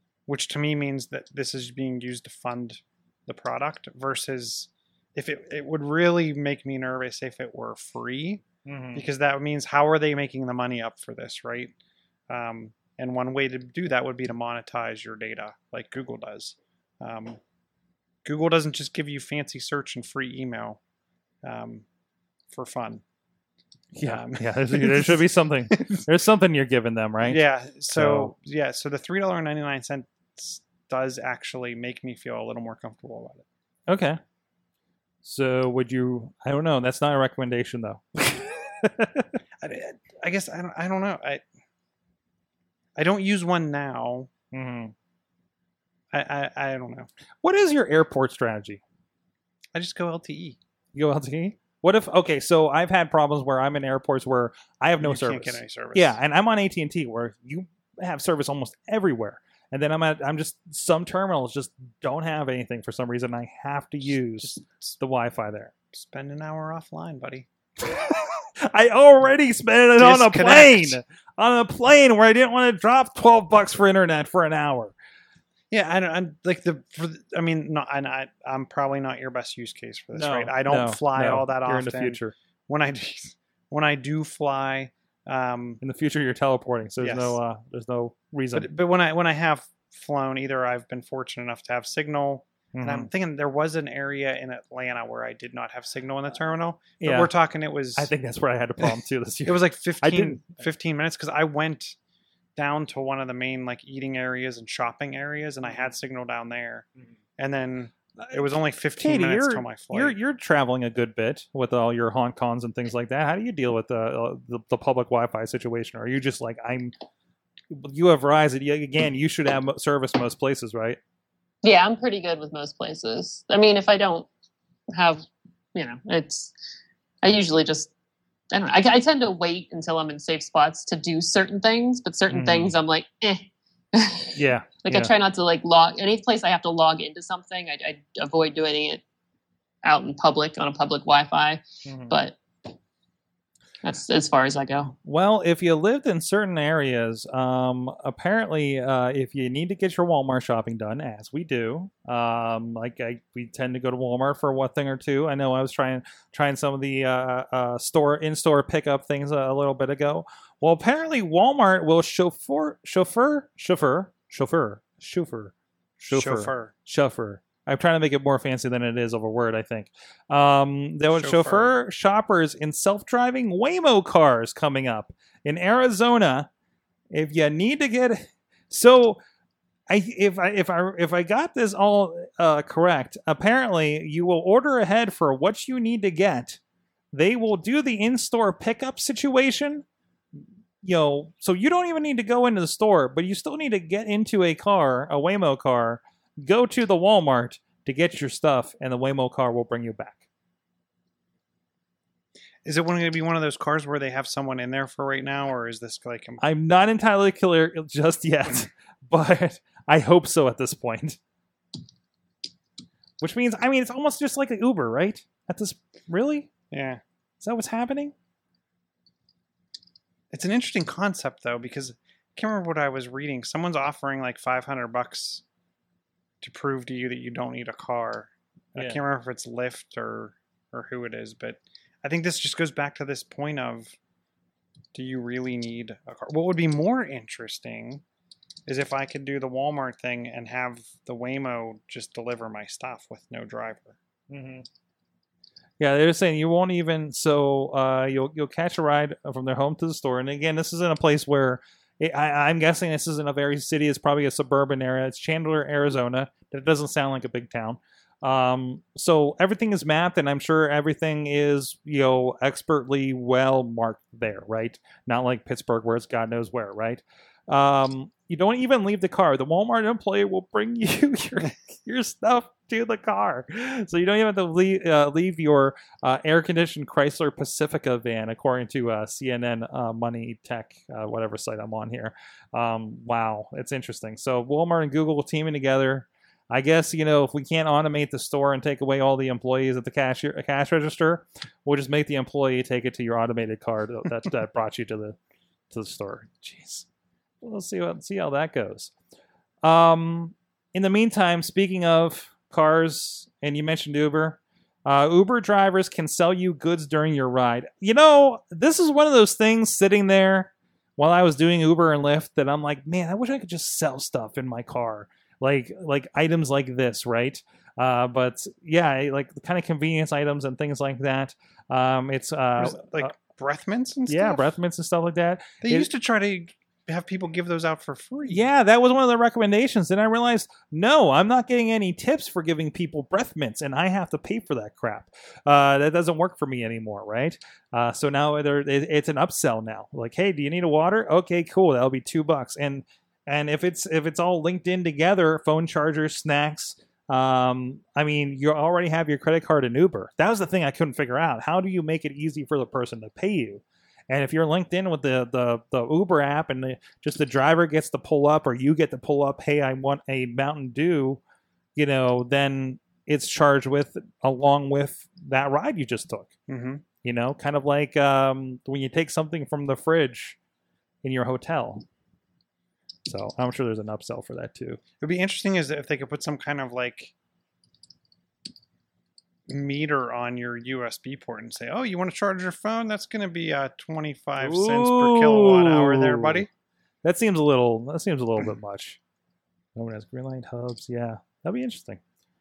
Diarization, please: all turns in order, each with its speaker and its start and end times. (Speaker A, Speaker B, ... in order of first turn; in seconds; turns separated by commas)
Speaker A: 0.3-11.7, Speaker B: 8.7-9.1, Speaker A: 12.3-17.4, Speaker A: 18.2-20.8, Speaker A: 21.4-21.9, Speaker A: 22.5-23.0, Speaker B: 23.9-27.4, Speaker A: 24.0-26.0, Speaker A: 27.2-33.5, Speaker B: 27.9-28.3, Speaker B: 33.9-34.2, Speaker B: 35.2-39.3, Speaker A: 39.6-41.4, Speaker A: 43.0-44.3, Speaker B: 44.5-44.9, Speaker A: 46.1-47.1, Speaker B: 47.4-48.8, Speaker A: 49.7-50.6, Speaker B: 50.9-65.7, Speaker A: 55.0-56.2, Speaker A: 64.4-64.9, Speaker A: 65.9-67.5, Speaker B: 67.8-74.9, Speaker A: 70.0-71.0, Speaker A: 75.7-85.8, Speaker B: 80.1-82.3, Speaker B: 85.8-88.7, Speaker A: 87.0-87.4, Speaker A: 88.5-98.1, Speaker B: 92.7-93.1, Speaker B: 97.0-97.3, Speaker B: 98.0-100.5, Speaker A: 99.5-102.0, Speaker A: 102.5-106.9, Speaker A: 107.4-110.2, Speaker B: 109.0-116.9, Speaker B: 117.7-121.0, Speaker C: 121.6-124.3, Speaker C: 124.9-126.5, Speaker C: 127.2-127.9, Speaker C: 128.5-139.0, Speaker B: 132.3-132.8, Speaker B: 134.3-135.1, Speaker C: 139.8-142.4, Speaker B: 141.8-142.1, Speaker C: 143.8-144.9, Speaker B: 145.0-176.5, Speaker A: 166.1-166.7, Speaker A: 171.1-171.7, Speaker B: 177.1-179.2, Speaker B: 179.9-186.6, Speaker B: 187.1-189.8, Speaker B: 190.8-200.2, Speaker A: 202.6-206.4, Speaker B: 206.4-211.2, Speaker B: 213.2-216.5, Speaker A: 216.7-217.0, Speaker B: 217.4-218.1, Speaker A: 220.3-225.4, Speaker A: 226.4-233.9, Speaker A: 234.9-238.0, Speaker A: 238.7-244.0, Speaker B: 244.3-244.7, Speaker B: 245.8-295.1, Speaker B: 295.7-296.9, Speaker B: 297.4-298.9, Speaker B: 299.6-323.1, Speaker A: 322.6-324.5, Speaker B: 324.1-325.9, Speaker A: 325.6-328.4, Speaker B: 328.3-361.2, Speaker B: 361.8-366.3, Speaker A: 366.5-366.8, Speaker B: 367.0-370.4, Speaker B: 371.0-371.8, Speaker B: 373.1-374.8, Speaker A: 375.0-377.1, Speaker A: 379.5-386.5, Speaker B: 384.4-386.5, Speaker B: 387.0-389.0, Speaker B: 389.7-392.0